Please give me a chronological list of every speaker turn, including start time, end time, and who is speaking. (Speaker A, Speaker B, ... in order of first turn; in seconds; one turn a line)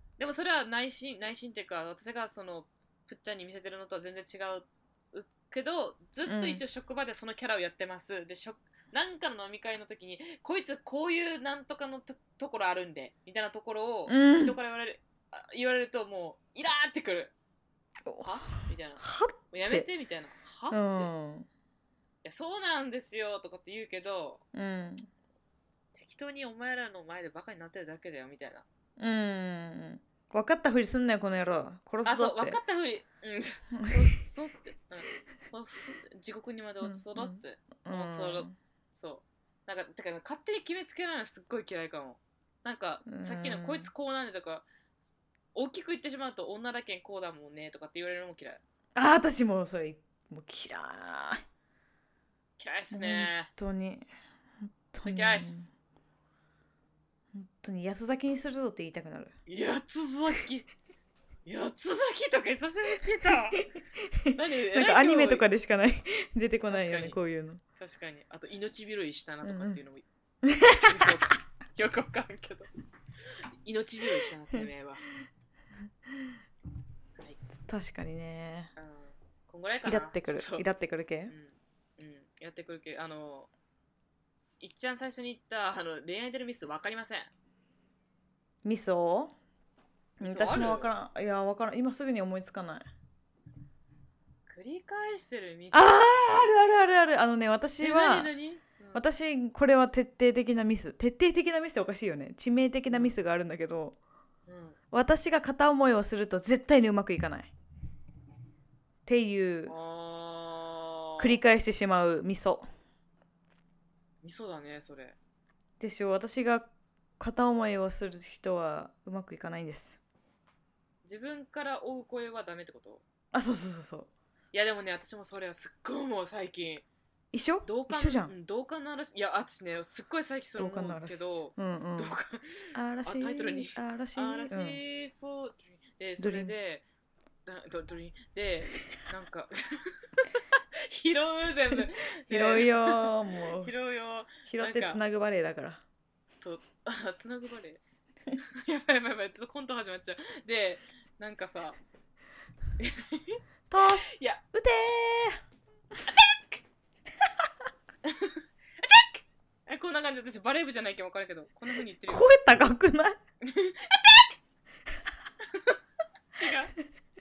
Speaker A: 0.2-17.3
Speaker B: 6.2-6.6
Speaker B: 14.1-14.6
Speaker B: 18.1-19.9
Speaker A: 18.2-21.1
Speaker B: 20.7-21.5
Speaker A: 22.2-24.4
Speaker B: 24.5-25.1
Speaker A: 25.9-28.6
Speaker B: 29.0-32.6
Speaker A: 32.0-44.6
Speaker B: 33.7-34.1
Speaker B: 36.8-38.5
Speaker B: 43.1-43.9
Speaker A: 45.5-48.6
Speaker B: 48.9-51.4
Speaker A: 52.6-53.5
Speaker B: 52.9-54.1
Speaker B: 54.9-55.7
Speaker A: 55.0-55.6
Speaker B: 57.3-59.3
Speaker A: 59.5-60.7
Speaker A: 61.5-63.6
Speaker B: 63.5-67.6
Speaker A: 64.3-65.5
Speaker A: 66.7-67.2
Speaker A: 67.8-70.0
Speaker B: 69.4-69.8
Speaker B: 70.4-71.2
Speaker A: 70.7-72.7
Speaker A: 73.6-75.0
Speaker B: 77.6-78.7
Speaker A: 78.8-80.7
Speaker B: 79.8-81.3
Speaker A: 81.3-83.5
Speaker A: 84.5-87.3
Speaker B: 88.6-89.3
Speaker B: 90.2-92.9
Speaker A: 90.2-90.9
Speaker A: 94.5-96.5
Speaker B: 95.7-98.3
Speaker A: 97.8-99.0
Speaker B: 98.9-104.0
Speaker A: 102.9-103.1
Speaker A: 104.5-104.8
Speaker B: 104.9-107.5
Speaker B: 109.0-109.7
Speaker A: 109.7-111.3
Speaker B: 111.2-112.7
Speaker A: 114.2-115.2
Speaker B: 115.8-116.7
Speaker B: 117.2-120.0
Speaker A: 121.0-123.0
Speaker B: 123.3-124.1
Speaker A: 124.5-126.8
Speaker B: 127.3-128.3
Speaker A: 127.7-136.8
Speaker B: 130.6-132.2
Speaker B: 132.7-134.8
Speaker B: 136.2-136.5
Speaker A: 137.4-139.9
Speaker A: 140.8-145.0
Speaker B: 142.3-143.7
Speaker B: 144.4-145.8
Speaker A: 146.4-147.8
Speaker A: 148.4-151.8
Speaker A: 152.8-153.4
Speaker B: 153.7-155.4
Speaker A: 154.1-154.4
Speaker A: 156.0-156.6
Speaker A: 158.0-162.3
Speaker B: 162.1-163.2
Speaker A: 163.4-164.3
Speaker A: 165.4-165.8
Speaker A: 166.3-166.7